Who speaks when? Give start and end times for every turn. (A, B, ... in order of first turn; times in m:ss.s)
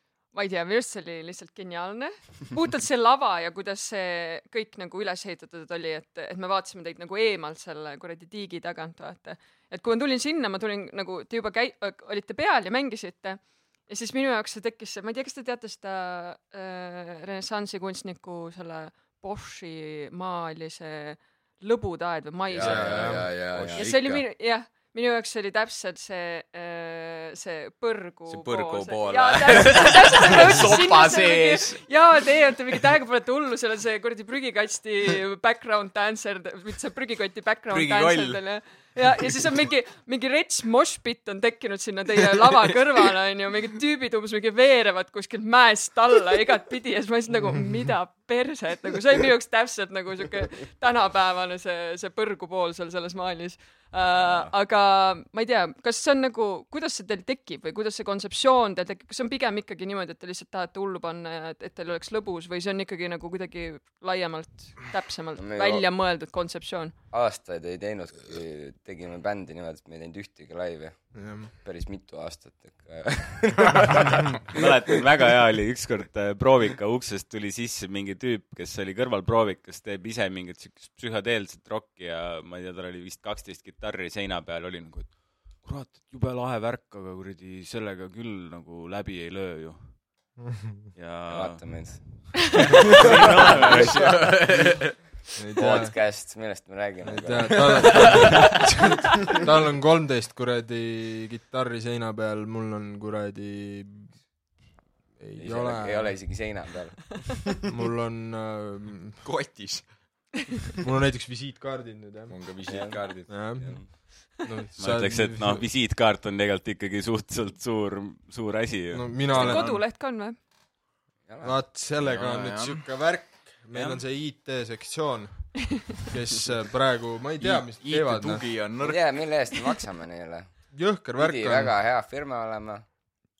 0:00.3-1:06.9 A
0:22.5-0:24.1 B
0:22.6-0:24.2 C
0:22.6-0:23.3 D
0:28.3-0:31.8 B
0:37.7-0:38.4 B
0:54.2-0:54.5 C
1:05.4-1:05.8 C
1:07.1-1:14.6 C
1:11.1-1:11.5 D
1:14.5-1:30.0 E
1:30.4-1:30.9 D
1:30.9-1:34.5 E
1:31.3-1:32.3 C
1:33.0-1:34.0 C
1:33.0-1:35.0 B
1:35.4-1:35.9 D
1:35.6-1:38.6 C
1:37.0-1:44.2 D
1:37.6-1:38.4 B
1:45.2-1:46.3 D
1:45.4-1:47.2 C
1:47.6-1:49.2 D
1:49.2-1:50.3 B
1:50.8-1:52.4 D
1:52.3-1:53.4 B
1:52.6-1:53.9 C
1:53.3-1:55.6 D
1:54.8-1:59.6 E
1:58.9-1:59.8 D
1:59.3-2:00.4 A
1:59.4-1:59.7 B
2:01.3-2:01.6 C
2:01.4-2:08.4 D
2:02.0-2:02.8 B
2:03.7-2:04.0 E
2:07.4-2:09.1 B
2:08.8-2:10.5 C
2:10.7-2:11.7 D
2:11.2-2:12.8 C